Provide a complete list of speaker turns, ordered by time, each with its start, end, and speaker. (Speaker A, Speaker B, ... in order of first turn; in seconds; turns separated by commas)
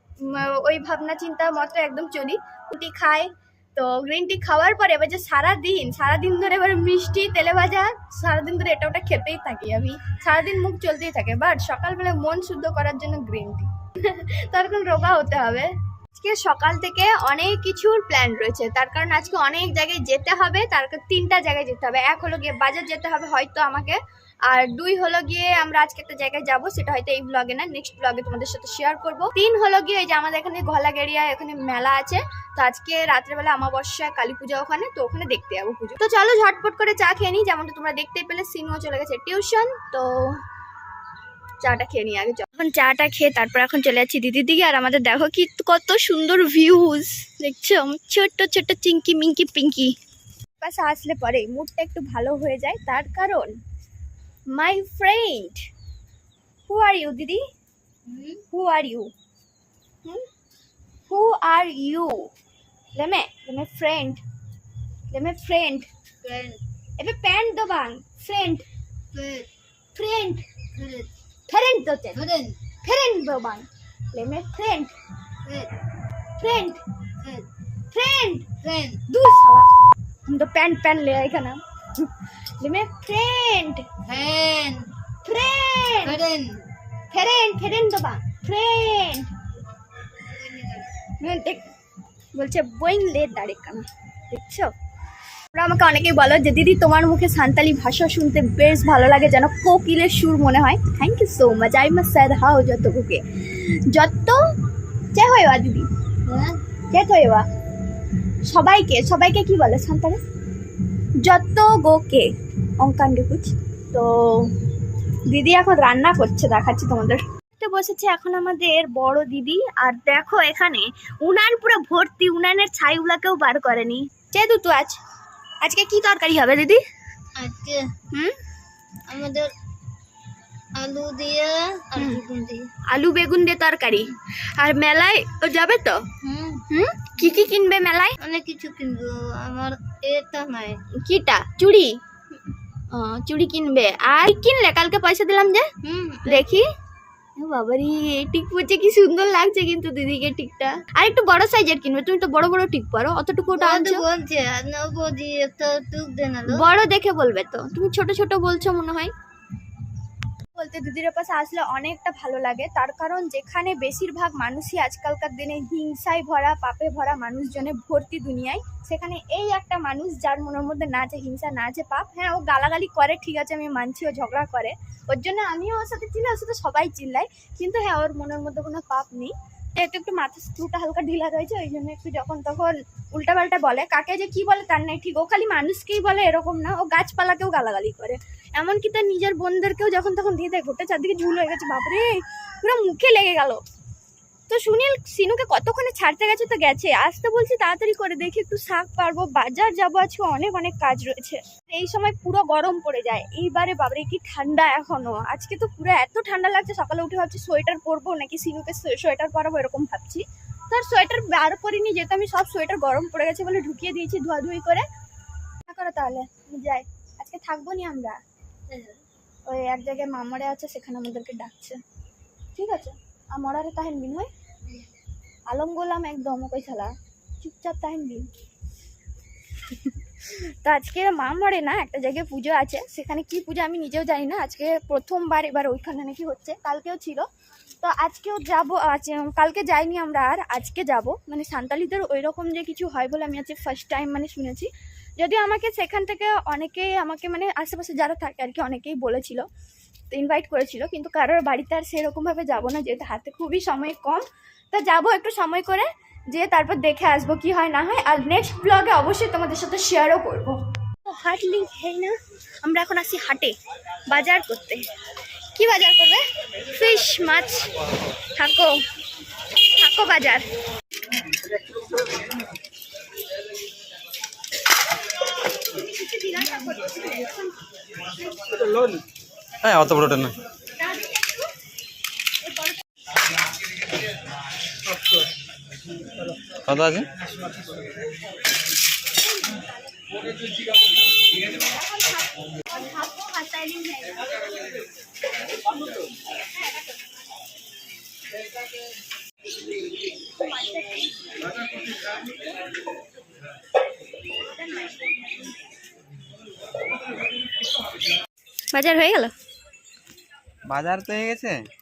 Speaker A: 0.2-40.4, Speaker A: 41.6-49.9, Speaker A: 50.6-53.5, Speaker A: 54.5-55.6, Speaker A: 56.7-57.4, Speaker B: 58.1-58.4, Speaker A: 58.5-59.1, Speaker A: 61.1-62.3, Speaker A: 63.0-64.2, Speaker A: 65.1-65.9, Speaker B: 66.2-66.6, Speaker A: 67.0-68.7, Speaker B: 69.1-69.5, Speaker A: 70.0-70.4, Speaker B: 70.8-71.1, Speaker A: 71.5-72.2, Speaker B: 72.1-72.6, Speaker A: 72.8-74.9, Speaker B: 75.5-75.7, Speaker A: 76.4-76.8, Speaker B: 77.2-77.5, Speaker A: 77.9-78.5, Speaker B: 78.6-79.0, Speaker A: 79.1-79.7, Speaker A: 80.3-83.9, Speaker B: 84.0-84.9, Speaker A: 85.2-86.2, Speaker B: 86.0-86.7, Speaker A: 87.1-89.3, Speaker B: 90.2-90.9, Speaker A: 91.2-91.6, Speaker A: 92.3-94.7, Speaker A: 95.5-104.4, Speaker A: 105.1-105.9, Speaker B: 106.3-106.6, Speaker A: 106.9-107.5, Speaker A: 108.5-110.2, Speaker A: 111.2-114.5, Speaker A: 115.3-125.0, Speaker A: 125.6-126.8, Speaker B: 127.4-127.9, Speaker B: 129.1-129.5, Speaker B: 130.8-132.7, Speaker A: 132.0-132.2, Speaker A: 132.9-136.1, Speaker B: 136.2-136.6, Speaker A: 136.7-138.2, Speaker B: 138.2-140.8, Speaker A: 141.0-142.0, Speaker A: 142.9-145.7, Speaker B: 145.8-146.5, Speaker A: 146.3-146.7, Speaker A: 147.4-154.1, Speaker B: 153.6-156.7, Speaker A: 156.5-159.1, Speaker A: 160.6-193.6, Speaker A: 194.5-214.9, Speaker A: 215.7-218.2, Speaker B: 218.7-219.0, Speaker A: 219.5-221.8, Speaker A: 222.6-224.3, Speaker A: 225.5-228.3, Speaker A: 229.7-237.3, Speaker A: 237.8-249.4, Speaker A: 250.1-263.6, Speaker A: 264.1-264.9, Speaker A: 265.6-267.7, Speaker A: 268.3-268.8, Speaker A: 269.6-270.5, Speaker A: 275.5-277.5, Speaker C: 279.6-280.4, Speaker A: 280.8-281.4, Speaker C: 286.5-287.1, Speaker A: 291.6-294.2, Speaker A: 300.4-301.4, Speaker A: 304.8-305.1, Speaker A: 308.7-309.3, Speaker C: 310.7-311.6